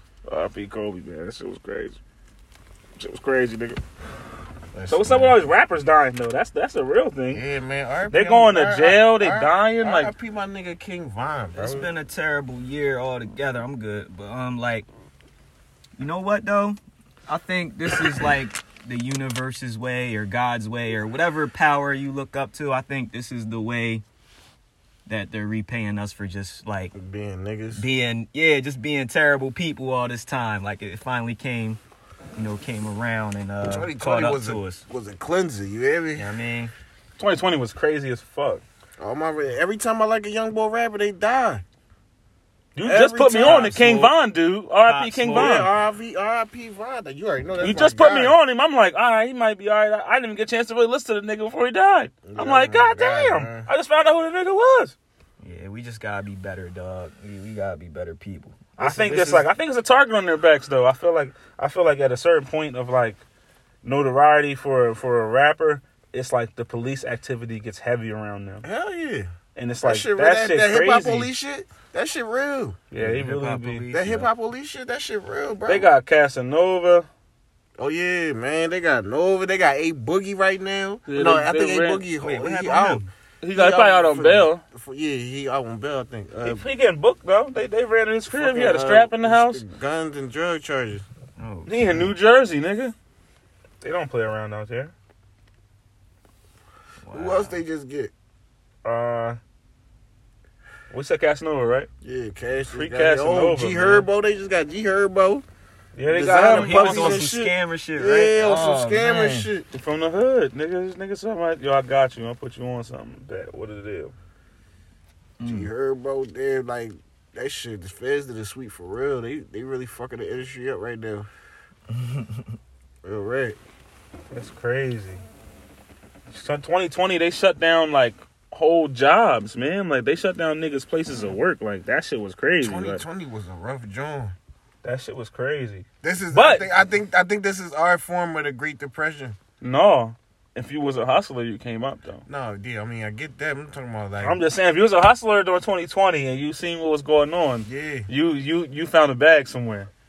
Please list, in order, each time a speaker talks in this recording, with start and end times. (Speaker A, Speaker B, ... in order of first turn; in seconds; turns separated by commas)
Speaker A: 0.2-2.0, Speaker A: 3.0-3.8, Speaker B: 4.7-5.3, Speaker A: 4.9-7.4, Speaker B: 7.3-11.9, Speaker A: 8.1-10.1, Speaker C: 11.5-14.9, Speaker C: 16.0-24.0, Speaker C: 25.1-26.9, Speaker B: 26.9-27.8, Speaker C: 27.7-31.8, Speaker C: 32.3-34.8, Speaker B: 33.6-36.3, Speaker C: 36.1-36.7, Speaker A: 37.2-38.6, Speaker B: 39.0-41.6, Speaker A: 42.7-45.7, Speaker B: 42.8-44.1, Speaker C: 44.8-45.7, Speaker B: 45.3-48.3, Speaker A: 47.6-54.9, Speaker B: 52.2-53.7, Speaker C: 55.4-58.8, Speaker A: 58.8-63.2, Speaker B: 58.8-59.5, Speaker A: 63.8-68.6, Speaker B: 68.6-69.3, Speaker A: 69.5-71.3, Speaker B: 69.8-72.8, Speaker A: 72.9-73.8, Speaker C: 73.0-74.3, Speaker B: 73.9-75.9, Speaker A: 75.7-77.1, Speaker B: 77.8-86.6, Speaker A: 81.1-82.0, Speaker C: 82.2-83.1, Speaker A: 83.4-84.6, Speaker A: 86.4-89.6, Speaker B: 88.3-91.0, Speaker C: 91.4-92.1, Speaker A: 91.7-92.9, Speaker A: 93.8-94.9, Speaker C: 97.0-97.6, Speaker B: 97.1-98.1, Speaker A: 98.8-99.4, Speaker A: 100.9-101.9, Speaker B: 102.0-105.4, Speaker A: 102.7-104.1, Speaker A: 106.0-107.5, Speaker B: 106.1-109.7, Speaker C: 106.5-109.5, Speaker A: 109.7-114.1, Speaker C: 115.4-115.7, Speaker B: 115.4-121.3, Speaker C: 121.9-122.5, Speaker B: 123.0-123.6, Speaker A: 124.3-125.2, Speaker A: 126.3-133.0, Speaker B: 132.6-134.3, Speaker A: 134.8-136.7, Speaker B: 136.0-139.4, Speaker A: 139.6-142.2, Speaker B: 142.3-144.4, Speaker A: 144.2-149.9, Speaker B: 147.7-148.1